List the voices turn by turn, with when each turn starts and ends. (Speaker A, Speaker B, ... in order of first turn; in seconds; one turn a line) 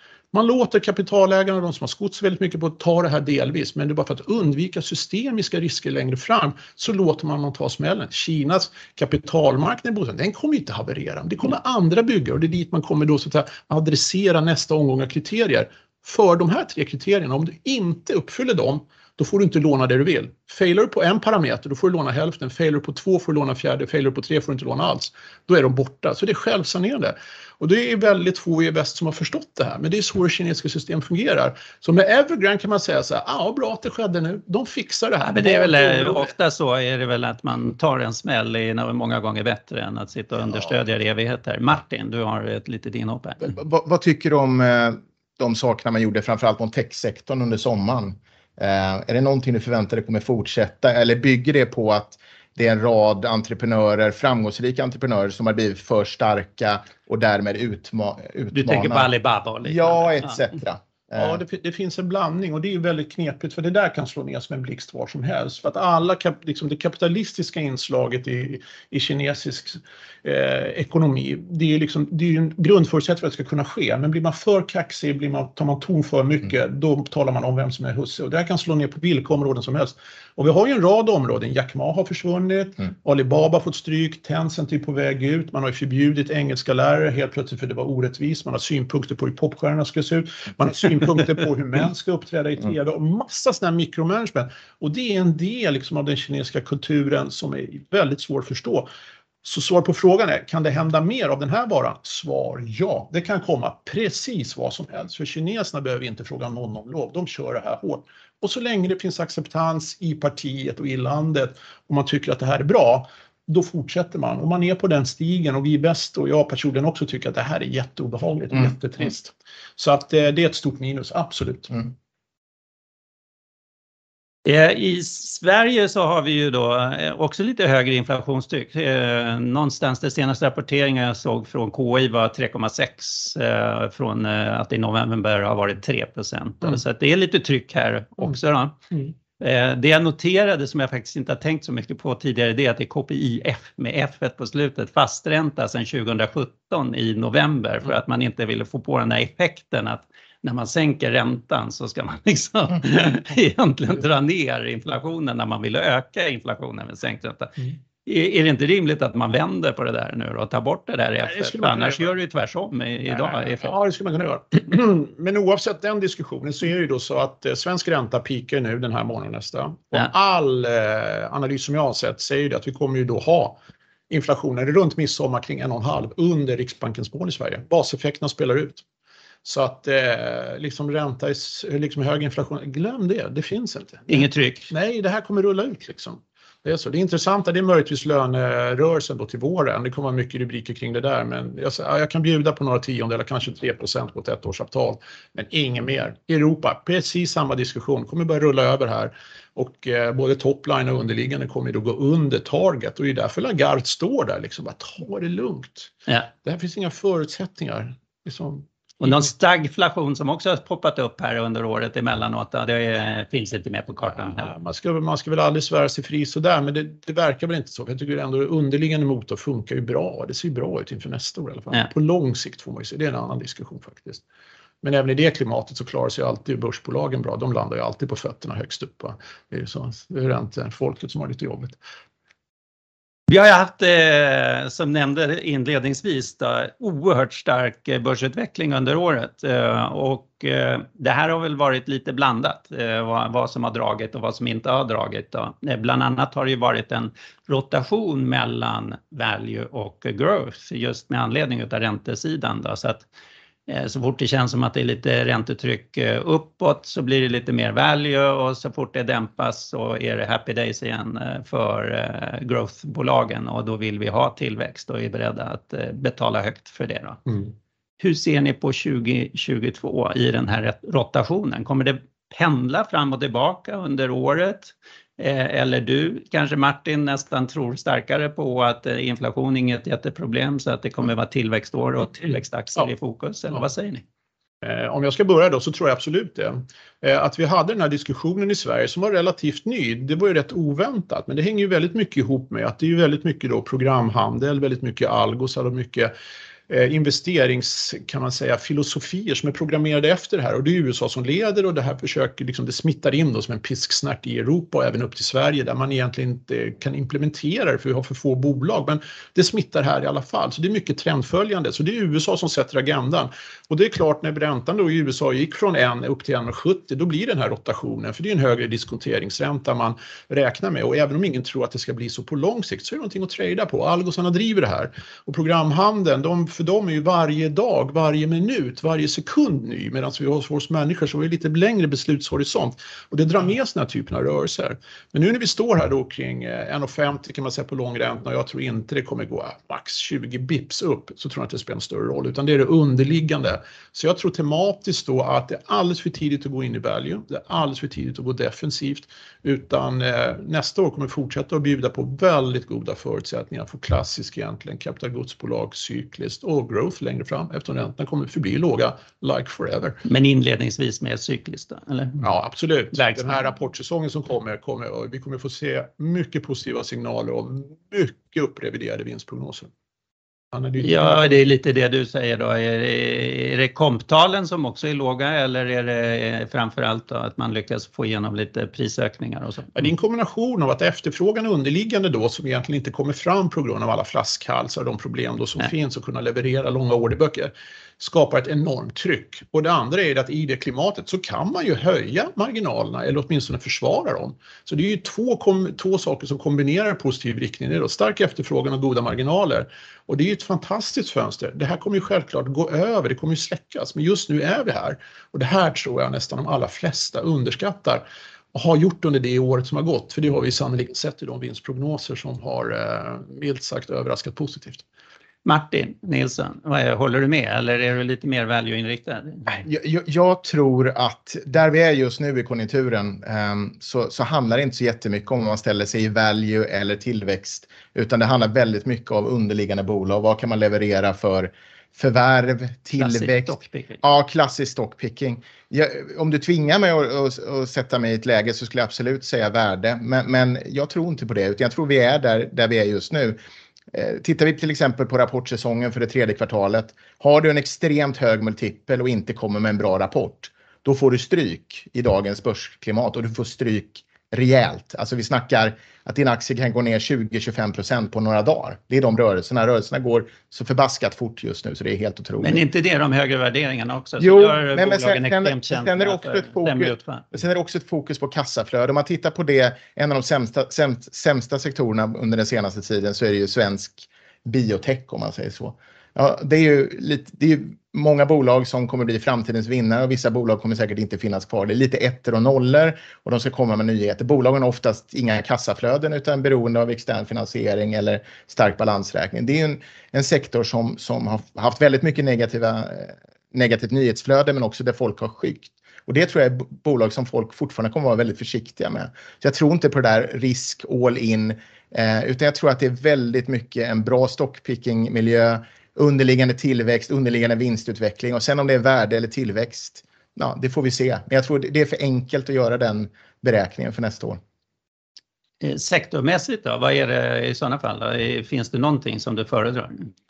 Speaker A: 0.3-36.3
Speaker B: 35.2-43.6
Speaker C: 43.5-59.1
Speaker B: 58.5-60.4
Speaker C: 59.6-61.4
Speaker A: 61.2-98.9
Speaker A: 99.4-121.8
Speaker B: 124.5-138.8
Speaker B: 139.4-163.7
Speaker A: 161.2-162.1
Speaker A: 163.1-173.6
Speaker A: 174.1-178.8
Speaker A: 179.4-205.9
Speaker B: 184.1-184.7
Speaker A: 206.4-209.3
Speaker B: 209.0-214.5
Speaker A: 214.3-224.2
Speaker A: 224.8-231.8
Speaker B: 233.3-253.1
Speaker B: 253.7-267.2
Speaker B: 268.0-284.0
Speaker A: 284.6-296.1
Speaker A: 296.7-360.0
Speaker B: 360.1-362.2
Speaker A: 362.2-369.7
Speaker A: 370.5-371.4
Speaker B: 370.8-379.7
Speaker A: 379.8-414.8
Speaker B: 415.4-419.6
Speaker C: 419.6-443.4
Speaker B: 433.0-434.0
Speaker C: 443.9-462.6
Speaker B: 462.4-467.2
Speaker C: 464.2-514.4
Speaker B: 515.6-520.1